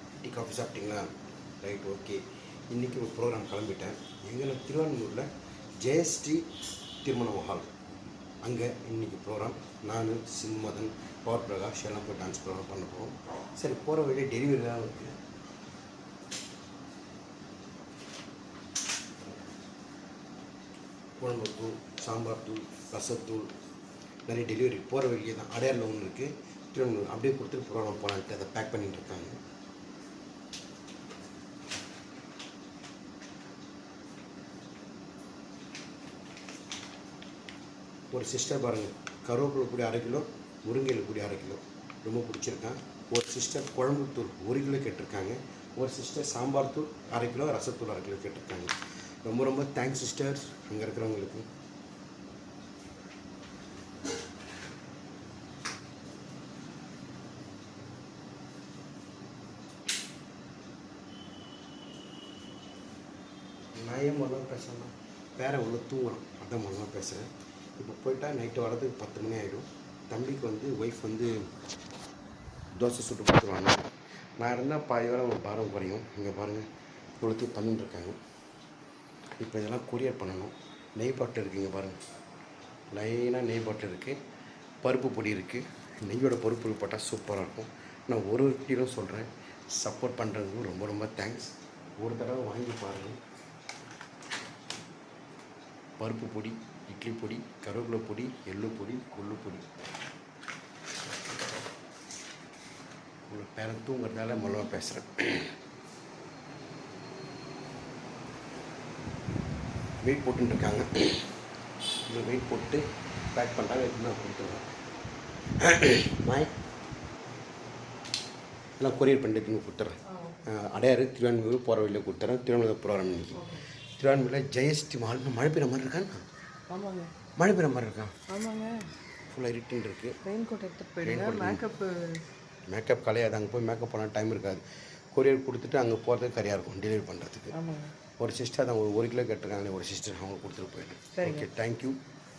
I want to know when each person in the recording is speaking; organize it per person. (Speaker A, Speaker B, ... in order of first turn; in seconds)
Speaker A: 0.2-1.1, 1.6-5.3, 5.8-6.4, 7.0-7.7, 8.4-15.2, 21.2-23.5, 24.3-29.4, 38.1-51.5, 63.8-71.3, 72.8-76.7, 77.2-78.2, 79.4-82.0, 82.9-84.2, 84.8-93.2, 96.0-99.7, 103.3-105.5, 110.0-111.3, 112.1-114.7, 115.6-116.5, 118.8-126.2, 127.4-128.2, 129.3-130.2, 131.0-131.6, 132.7-137.5, 138.2-142.0
Speaker B: 123.4-123.6, 126.7-127.1, 128.3-128.9, 130.2-132.2, 137.5-137.9, 141.1-141.4